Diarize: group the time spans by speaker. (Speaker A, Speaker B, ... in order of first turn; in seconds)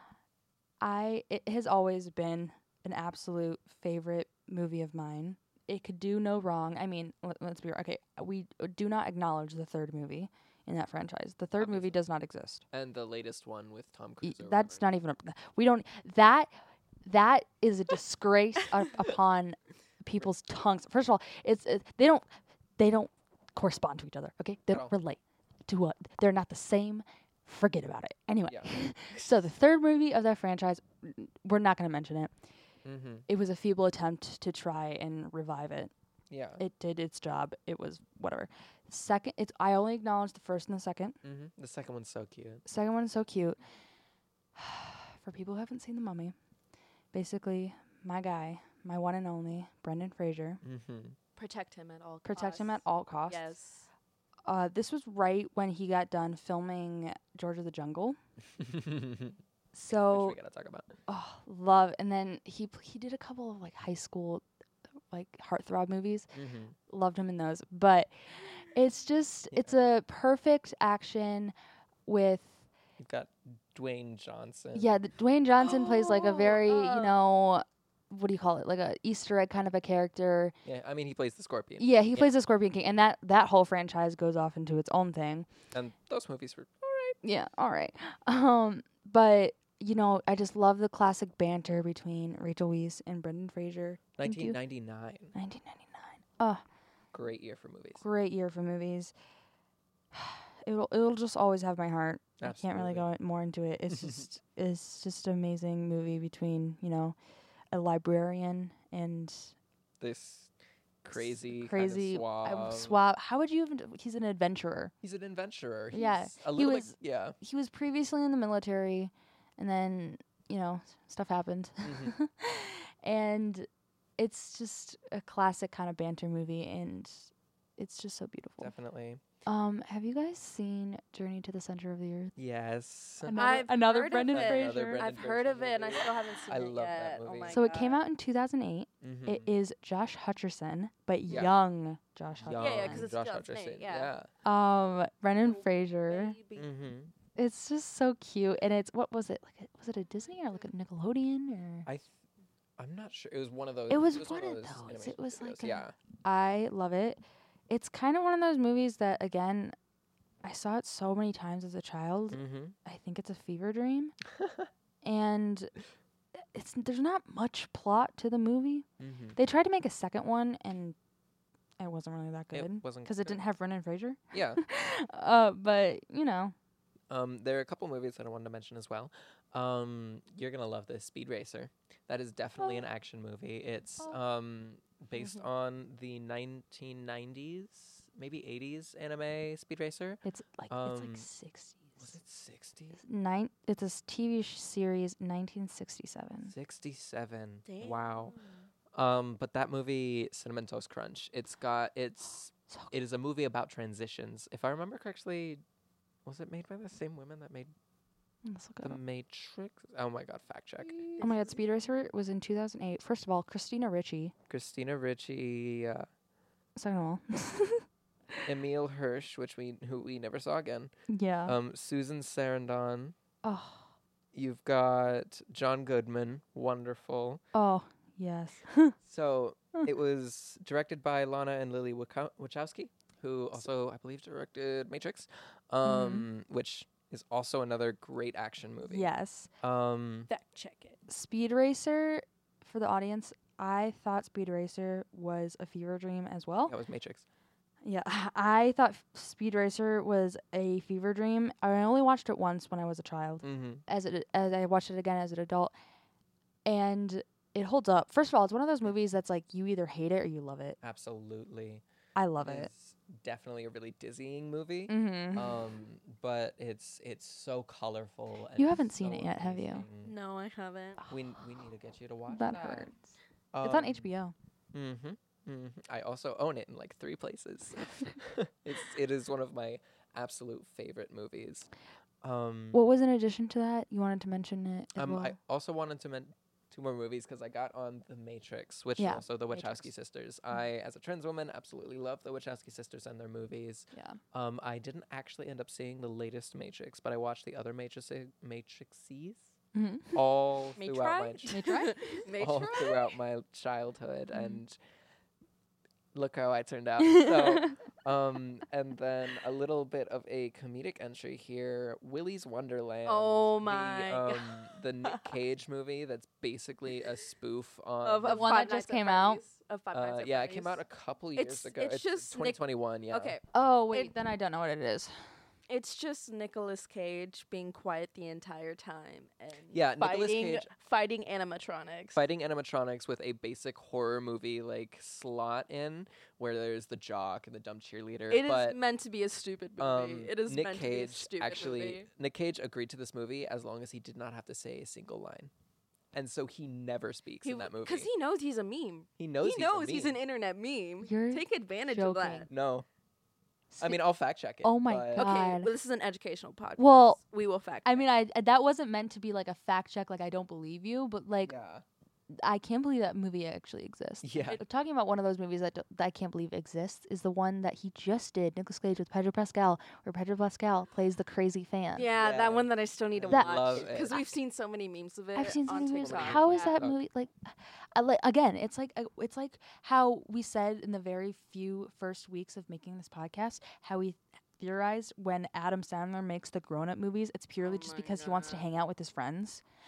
Speaker A: 0.8-12.6, 14.2-16.5, 17.0-32.3, 33.3-35.9, 36.6-41.2, 42.7-43.6, 44.6-46.4, 47.1-50.6, 52.3-53.5, 54.5-58.2, 59.7-60.4, 61.1-64.4, 65.1-66.3, 66.9-71.5, 72.1-72.7, 74.7-80.5, 81.8-85.5, 87.2-94.6, 95.3-96.6, 98.0-99.1, 100.1-107.2, 107.7-109.6, 111.1-114.9, 115.9-123.7, 124.2-128.7, 129.5-132.3, 133.2-135.0, 137.5-143.1, 144.4-146.4, 147.4-151.9, 153.9-159.8, 160.4-164.2, 165.0-165.7, 166.5-171.0, 171.8-176.6, 190.2-192.2, 193.0-196.5, 208.4-209.0, 211.2-214.3, 216.8-217.8, 221.1-221.6, 223.4-223.9, 227.5-228.9, 235.8-236.3, 238.8-239.5, 241.1-246.8, 247.8-255.7, 256.7-260.8, 262.2-262.7, 264.9-265.7, 268.6-269.9, 272.3-273.0, 273.6-274.3, 282.7-285.4, 289.0-289.9, 293.9-294.2, 299.7-300.2, 301.5-302.2, 304.3-304.6, 307.0-307.8, 318.3-319.4, 323.5-325.1, 351.0-352.5, 353.7-354.0, 354.6-355.7, 356.8-357.2, 357.8-361.6, 362.4-372.1, 373.3-374.3, 375.4-389.6
Speaker B: 11.6-12.0, 12.7-14.9, 24.7-24.9, 28.5-29.4, 32.9-33.3, 36.3-36.6, 41.2-42.6, 50.6-51.2, 58.6-59.4, 60.1-60.9, 66.3-66.8, 69.5-69.9, 73.0-74.9, 80.6-82.3, 85.7-87.2, 94.2-95.3, 97.1-98.0, 102.4-103.1, 103.9-104.2, 110.0-110.5, 111.0-113.0, 115.0-117.4, 121.8-122.1, 128.6-129.2, 132.4-133.6, 134.2-137.6, 139.0-139.5, 141.3-141.6, 142.3-144.3, 146.6-147.1, 151.9-152.2, 152.8-155.9, 162.3-162.8, 164.4-164.7, 169.0-169.4, 172.5-173.4, 174.3-174.6, 177.1-191.3, 192.0-193.0, 196.4-198.4, 198.9-205.6, 206.2-207.7, 208.8-211.2, 214.5-216.1, 218.5-220.9, 221.4-223.2, 224.3-227.4, 229.0-239.1, 239.6-240.3, 246.7-247.2, 253.4-253.8, 260.8-261.8, 262.4-270.1, 271.1-272.9, 273.5-274.1, 274.7-281.7, 282.2-282.8, 284.9-299.6, 300.1-301.7, 302.3-304.8, 306.1-318.5, 319.9-323.4, 329.7-330.7, 332.1-338.8, 339.8-345.5, 346.1-348.1, 349.2-350.2, 352.5-352.9, 353.8-355.3, 361.4-361.8, 364.2-364.6, 372.1-374.2, 375.9-377.0
Speaker C: 51.4-53.9, 75.6-77.2, 133.3-138.0, 142.5-144.1, 145.3-146.7, 185.2-185.5, 197.7-198.7, 210.8-211.8, 240.3-241.0, 270.0-271.0, 300.8-303.1, 313.1-315.3, 318.0-320.8, 321.4-324.1, 325.7-332.2, 338.3-342.1, 347.4-352.5, 355.2-358.1, 371.9-376.8, 387.6-388.7